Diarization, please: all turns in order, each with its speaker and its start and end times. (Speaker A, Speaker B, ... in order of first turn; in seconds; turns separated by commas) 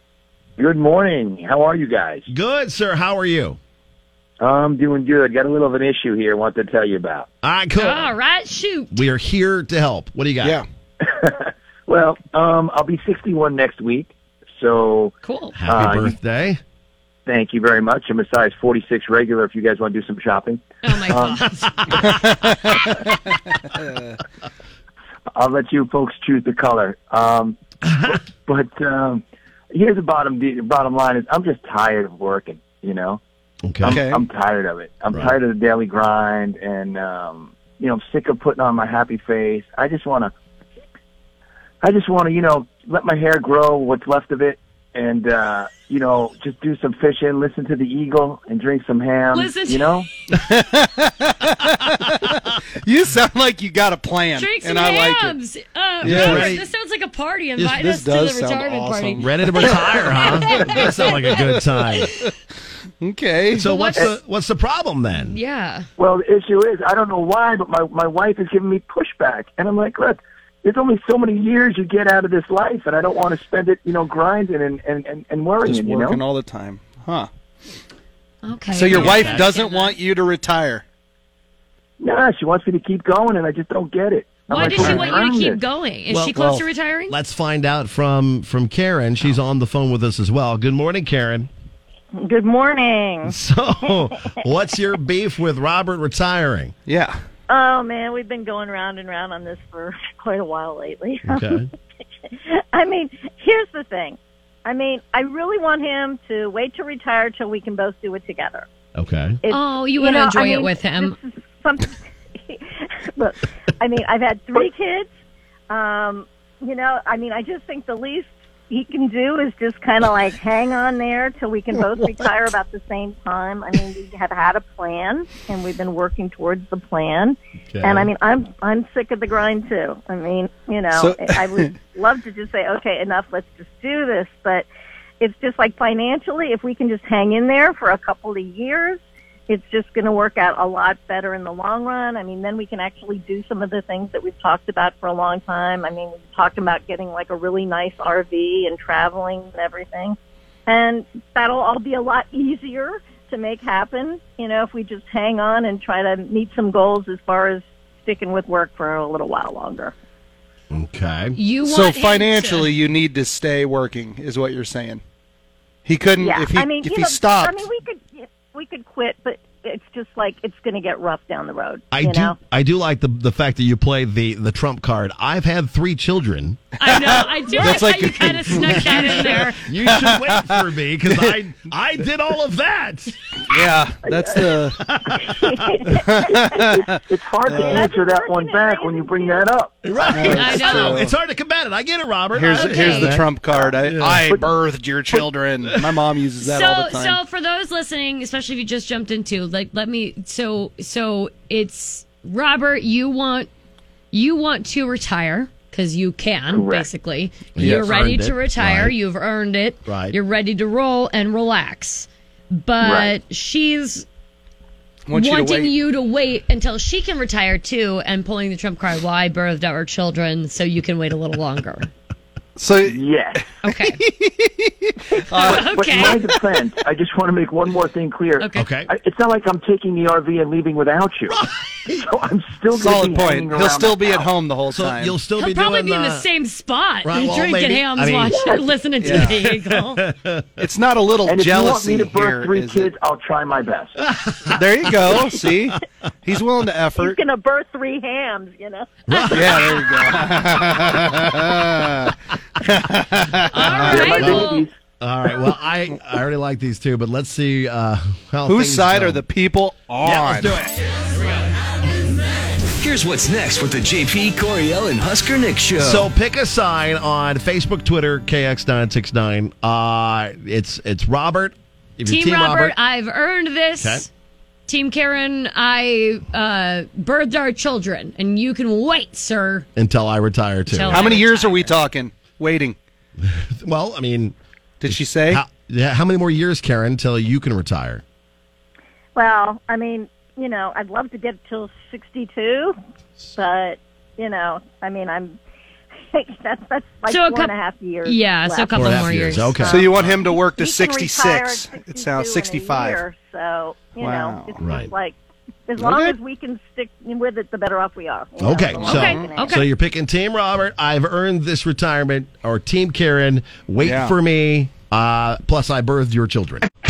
Speaker A: 0.6-2.3, Speaker B: 2.3-3.6, Speaker A: 4.4-7.2, Speaker B: 7.4-8.1, Speaker C: 7.8-9.0, Speaker B: 8.9-10.6, Speaker A: 11.0-15.1, Speaker C: 15.2-15.6, Speaker B: 15.6-16.6, Speaker A: 15.7-16.1, Speaker A: 17.2-21.4, Speaker C: 20.8-22.0, Speaker D: 22.0-24.1, Speaker A: 25.3-33.2, Speaker B: 33.6-34.0, Speaker A: 33.8-40.3, Speaker D: 33.8-34.2, Speaker A: 41.8-50.1, Speaker C: 49.3-50.0, Speaker D: 50.3-55.4, Speaker C: 54.4-61.4, Speaker B: 56.0-56.7, Speaker D: 56.0-56.5, Speaker D: 57.7-62.3, Speaker B: 59.2-62.1, Speaker D: 63.0-63.6, Speaker B: 63.5-65.4, Speaker C: 63.6-64.1, Speaker C: 65.2-65.9, Speaker A: 66.0-76.2, Speaker D: 75.6-77.3, Speaker C: 78.4-80.0, Speaker D: 78.7-80.8, Speaker B: 78.9-79.4, Speaker A: 82.0-85.6, Speaker C: 84.5-87.1, Speaker B: 86.1-91.5, Speaker E: 92.2-93.3, Speaker B: 93.2-96.7, Speaker D: 96.8-97.2, Speaker E: 97.5-101.6, Speaker B: 101.3-101.7, Speaker E: 102.3-108.7, Speaker B: 108.9-109.4, Speaker E: 109.4-115.1, Speaker C: 109.5-111.2, Speaker E: 115.7-134.7, Speaker B: 127.7-128.1, Speaker D: 130.9-131.8, Speaker E: 135.2-159.9, Speaker B: 160.7-161.4, Speaker C: 161.3-162.7, Speaker D: 161.6-165.0, Speaker D: 165.8-167.6, Speaker E: 166.2-172.4, Speaker B: 171.9-176.6, Speaker C: 176.8-179.6, Speaker D: 177.2-181.3, Speaker B: 179.1-183.2, Speaker D: 183.4-184.9, Speaker E: 184.1-184.3, Speaker B: 184.8-185.9, Speaker E: 185.2-186.7, Speaker D: 185.9-187.8, Speaker A: 186.5-189.9, Speaker E: 187.5-189.5, Speaker B: 189.8-193.3, Speaker D: 190.0-191.1, Speaker C: 190.3-191.1, Speaker D: 192.3-197.2, Speaker C: 192.5-193.2, Speaker B: 193.8-194.2, Speaker A: 194.2-194.5, Speaker C: 196.4-203.5, Speaker C: 204.1-214.1, Speaker A: 206.5-206.9, Speaker B: 207.6-208.9, Speaker D: 207.6-207.9, Speaker B: 209.8-210.2, Speaker A: 212.8-213.1, Speaker D: 215.1-215.7, Speaker C: 215.1-221.9, Speaker D: 222.6-225.7, Speaker A: 222.8-223.4, Speaker C: 223.6-224.0, Speaker C: 225.3-226.3, Speaker A: 225.3-234.2, Speaker C: 228.4-228.7, Speaker B: 228.6-228.9, Speaker D: 232.7-235.2, Speaker B: 234.7-236.3, Speaker C: 235.4-240.0, Speaker B: 237.0-240.7, Speaker D: 239.0-239.4, Speaker D: 240.6-242.9, Speaker A: 241.2-244.0, Speaker B: 244.1-244.6, Speaker D: 244.5-247.2, Speaker E: 247.0-248.9, Speaker B: 249.1-249.8, Speaker C: 249.1-249.9, Speaker D: 249.3-253.8, Speaker C: 253.5-254.7, Speaker B: 253.6-259.2, Speaker A: 253.6-254.8, Speaker D: 258.4-260.6, Speaker B: 260.0-260.7, Speaker F: 262.8-266.1, Speaker B: 265.8-272.7, Speaker C: 272.1-274.1, Speaker B: 273.8-274.1, Speaker C: 274.7-279.7, Speaker B: 279.8-281.2, Speaker C: 280.7-281.8, Speaker D: 280.9-282.8, Speaker B: 283.2-284.3, Speaker D: 284.8-285.4, Speaker B: 284.9-288.0, Speaker E: 289.1-292.7, Speaker E: 293.3-295.4, Speaker E: 296.1-305.1, Speaker C: 297.1-297.5, Speaker C: 298.0-299.6, Speaker B: 298.7-300.2, Speaker D: 299.6-303.0, Speaker D: 304.0-304.6, Speaker B: 304.6-304.9, Speaker E: 305.7-309.6, Speaker D: 305.8-306.2, Speaker B: 308.4-316.7, Speaker C: 308.8-309.6, Speaker D: 309.0-309.3, Speaker D: 313.8-314.1